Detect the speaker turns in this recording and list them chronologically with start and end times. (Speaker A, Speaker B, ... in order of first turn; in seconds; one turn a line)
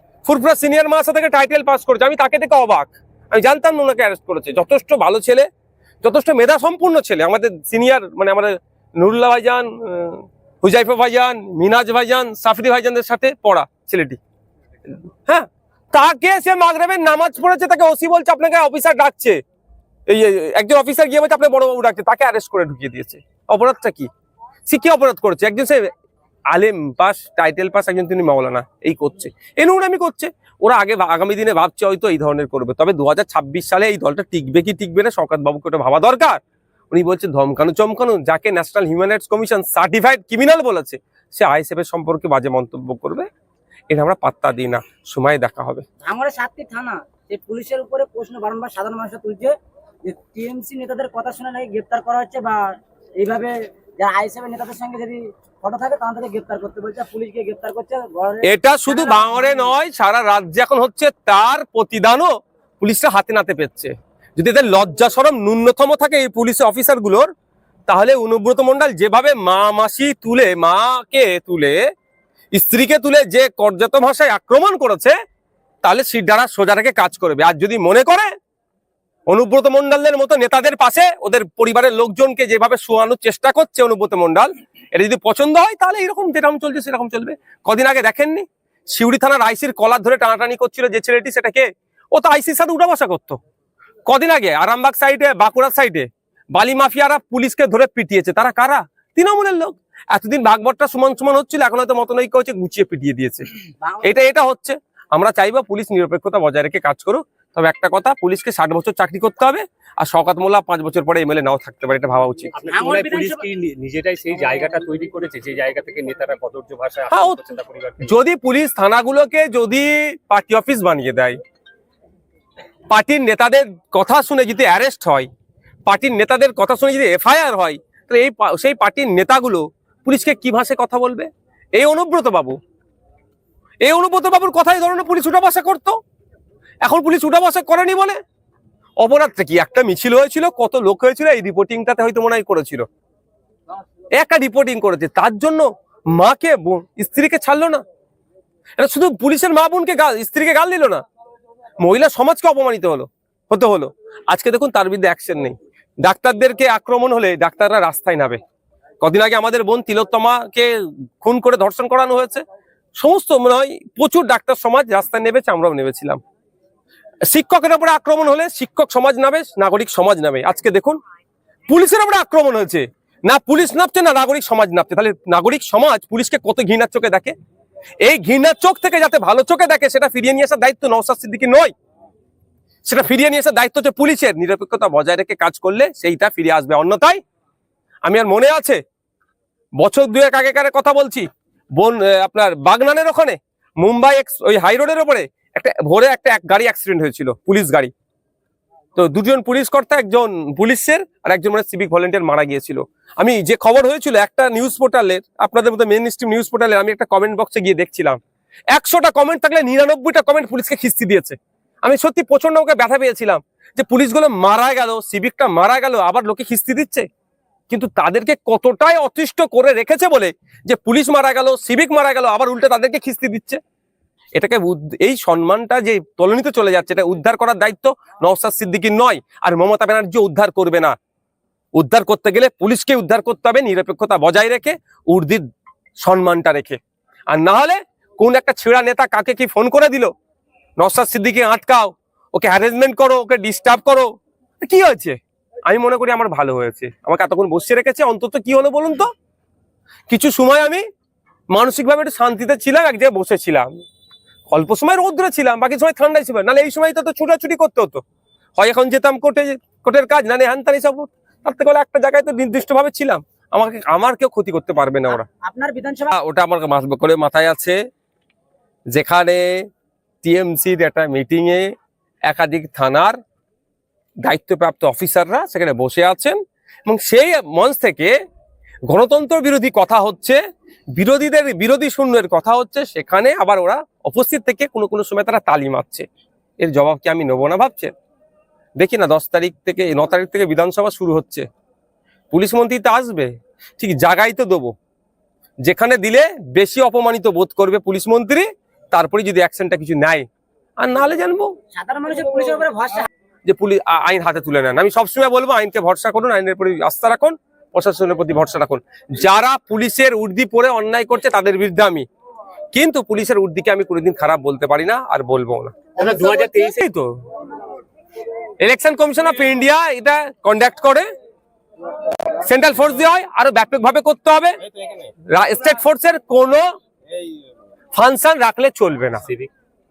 Speaker A: 0.2-5.5
Speaker A: 6.0-14.2
Speaker A: 15.3-19.4
Speaker A: 20.1-24.1
Speaker A: 24.7-25.9
Speaker A: 26.5-36.4
Speaker A: 36.9-43.3
Speaker A: 43.9-45.8
Speaker B: 46.0-49.5
Speaker B: 50.0-59.7
Speaker A: 58.4-67.3
Speaker A: 67.9-71.8
Speaker A: 72.5-75.2
Speaker A: 75.8-78.3
Speaker A: 79.3-93.4
Speaker A: 94.0-103.5
Speaker B: 103.8-104.1
Speaker A: 104.0-112.6
Speaker C: 112.5-118.1
Speaker B: 112.7-113.4
Speaker A: 117.1-117.4
Speaker A: 118.0-121.4
Speaker A: 122.9-125.3
Speaker A: 125.8-132.6
Speaker A: 133.8-136.0
Speaker A: 136.8-138.2
Speaker A: 139.0-142.8
Speaker A: 144.2-147.8
Speaker A: 148.8-151.0
Speaker A: 151.8-158.4
Speaker A: 159.0-162.4
Speaker A: 163.0-166.2
Speaker A: 167.3-171.0
Speaker A: 171.7-177.3
Speaker A: 178.0-181.7
Speaker A: 182.8-187.2
Speaker A: 188.0-188.8
Speaker A: 189.8-197.9
Speaker A: 198.9-208.2
Speaker A: 208.7-217.1
Speaker A: 217.7-223.6
Speaker A: 224.3-230.9
Speaker A: 231.7-235.4
Speaker A: 236.0-236.8
Speaker A: 237.3-240.1
Speaker A: 240.8-249.1
Speaker A: 250.1-250.8
Speaker A: 251.5-253.7
Speaker A: 254.5-258.0
Speaker A: 258.6-265.2
Speaker B: 265.1-266.1
Speaker A: 266.1-267.8
Speaker A: 268.9-269.7
Speaker A: 270.2-271.7
Speaker A: 272.3-273.2
Speaker A: 274.2-278.1
Speaker A: 278.9-280.4
Speaker A: 280.9-286.1
Speaker A: 286.6-287.9
Speaker A: 288.8-291.4
Speaker A: 292.3-294.7
Speaker A: 295.6-300.2
Speaker A: 300.8-301.5
Speaker B: 301.7-303.1
Speaker A: 303.4-312.1
Speaker A: 312.7-317.1
Speaker C: 316.0-316.7
Speaker A: 318.6-321.1
Speaker A: 322.4-324.6
Speaker A: 325.3-326.6
Speaker A: 327.9-329.3